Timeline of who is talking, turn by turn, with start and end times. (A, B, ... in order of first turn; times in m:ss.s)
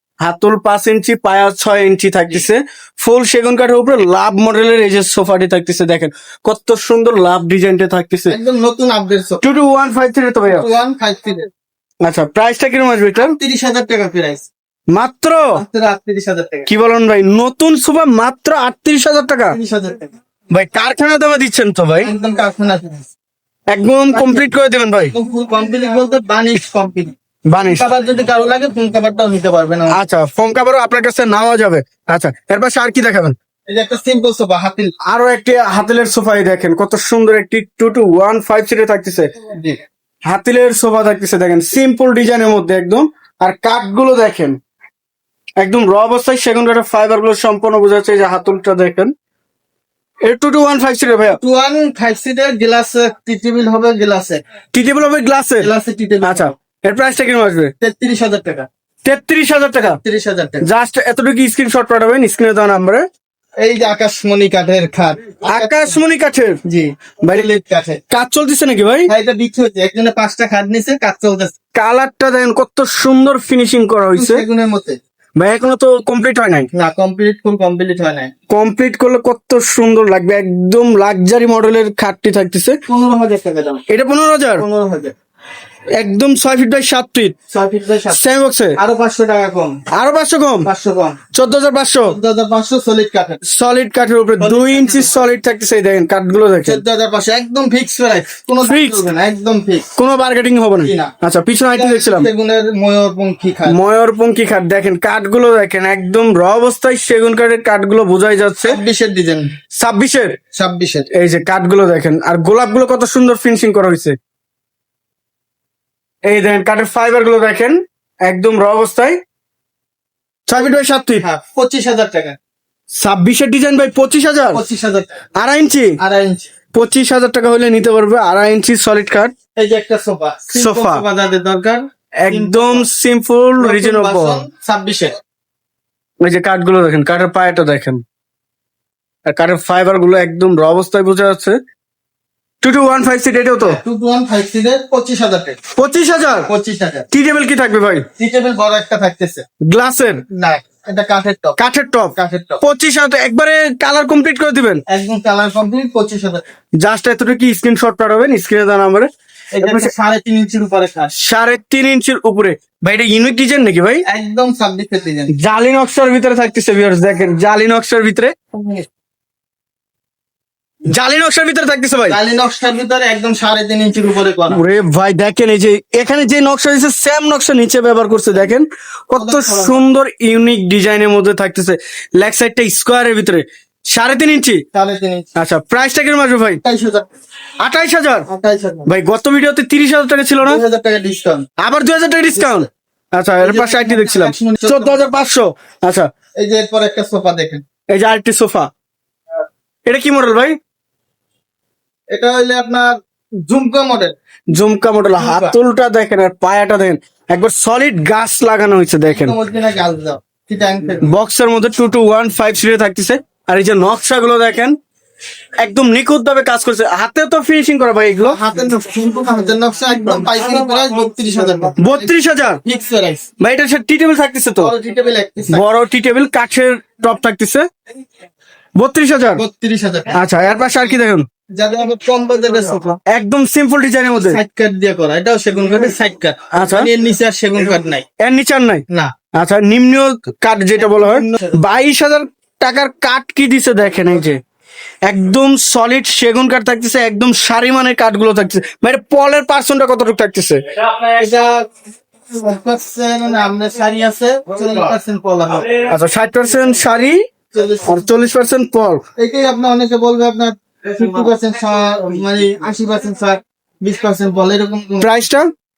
0:00.2-0:08.4 A
0:08.3-0:09.4 B
0:09.4-0:10.6 A
0:10.5-0:11.5 B
0:12.0-0:13.4 A
0:13.2-0:14.5 B
0:14.9-0:15.6 A
0:15.6-0:16.7 B
0:16.7-0:19.6 A
0:19.5-0:20.1 B
0:20.5-0:22.1 A
0:22.0-0:23.1 B
0:23.7-0:25.1 A
0:24.1-0:24.4 B
0:25.1-0:30.0 B
0:27.5-0:27.9 A
0:29.9-0:33.3 A
0:33.7-0:34.9 B
0:35.0-0:39.3 A
0:39.5-0:39.8 B
0:40.2-0:44.6 A
0:45.6-0:49.1 A
0:50.2-0:51.4 A
0:51.3-0:54.4 B
0:54.7-0:55.7 A
0:55.6-0:56.5 B
0:56.2-0:57.7 A
0:57.8-0:58.7 B
0:59.0-1:00.0 A
0:59.8-1:00.7 B
1:00.6-1:03.0 A
1:03.6-1:06.0 B
1:05.4-1:06.6 A
1:06.6-1:08.0 B
1:07.2-1:07.5 A
1:08.1-1:09.1 A
1:09.1-1:11.5 B
1:11.7-1:14.4 A
1:14.2-1:15.0 B
1:15.4-1:16.7 A
1:16.7-1:18.3 B
1:18.5-1:22.8 A
1:22.9-1:23.8 B
1:23.9-1:24.6 A
1:24.6-1:25.1 B
1:26.0-1:27.3 A
1:27.5-1:28.2 B
1:28.1-1:28.8 A
1:28.8-1:29.8 B
1:29.9-1:30.7 A
1:30.6-1:31.2 B
1:31.3-1:32.2 A
1:32.0-1:33.4 B
1:33.4-1:36.8 A
1:34.4-1:35.2 B
1:36.6-1:39.8 B
1:38.6-1:39.0 A
1:40.0-1:42.3 A
1:40.8-1:41.1 B
1:41.7-1:43.8 B
1:43.7-1:48.8 A
1:48.6-1:49.5 B
1:49.8-1:50.4 A
1:50.5-1:51.1 B
1:51.1-1:54.2 A
1:56.2-1:59.2 A
2:00.5-2:01.2 A
2:01.2-2:02.4 B
2:03.0-2:04.6 A
2:04.5-2:05.2 B
2:05.4-2:06.0 A
2:06.0-2:06.5 B
2:06.7-2:09.3 A
2:09.6-2:12.9 B
2:10.5-2:11.0 A
2:12.2-2:14.4 A
2:13.6-2:15.2 B
2:16.2-2:18.0 A
2:19.2-2:21.6 A
2:22.6-2:23.8 A
2:23.6-2:25.6 B
2:25.8-2:26.5 A
2:26.5-2:27.1 B
2:27.1-2:28.0 A
2:28.2-2:29.4 B
2:29.7-2:30.2 A
2:30.3-2:31.6 B
2:31.6-2:34.8 A
2:32.1-2:32.6 B
2:34.9-2:36.4 B
2:36.8-2:39.1 A
2:39.5-2:41.1 B
2:39.6-2:39.9 A
2:41.2-2:44.0 A
2:44.0-2:45.3 B
2:45.3-2:48.3 A
2:48.5-2:48.8 B
2:50.9-2:52.2 A
2:52.1-2:54.6 B
2:54.5-3:04.6 A
2:59.2-2:59.8 B
3:04.7-3:05.3 B
3:05.4-3:06.6 A
3:06.6-3:07.1 B
3:07.6-3:08.3 A
3:08.3-3:08.9 B
3:08.9-3:10.6 A
3:10.4-3:11.4 B
3:11.6-3:16.1 A
3:12.3-3:12.7 B
3:13.4-3:15.1 B
3:16.4-3:17.6 B
3:17.9-3:18.7 A
3:19.9-3:20.6 A
3:22.1-3:22.9 B
3:23.4-3:24.1 B
3:24.5-3:29.4 A
3:25.2-3:25.5 B
3:29.1-3:31.1 B
3:31.0-3:34.8 A
3:35.6-3:38.4 A
3:38.2-3:42.1 B
3:41.8-3:42.6 A
3:42.6-3:43.3 B
3:43.4-3:44.7 A
3:44.6-3:45.6 B
3:45.5-3:47.6 A
3:48.8-3:49.4 A
3:49.4-3:50.2 B
3:50.1-3:51.2 A
3:51.5-3:53.0 B
3:53.1-3:54.4 A
3:54.2-3:58.0 B
3:56.5-3:56.9 A
3:58.2-3:58.8 A
3:59.3-4:04.4 A
4:00.8-4:01.6 B
4:05.0-4:10.6 A
4:11.2-4:11.7 B
4:12.3-4:15.7 B
4:15.8-4:17.2 A
4:17.5-4:18.1 B
4:17.8-4:19.0 A
4:19.2-4:25.1 B
4:25.0-4:25.5 A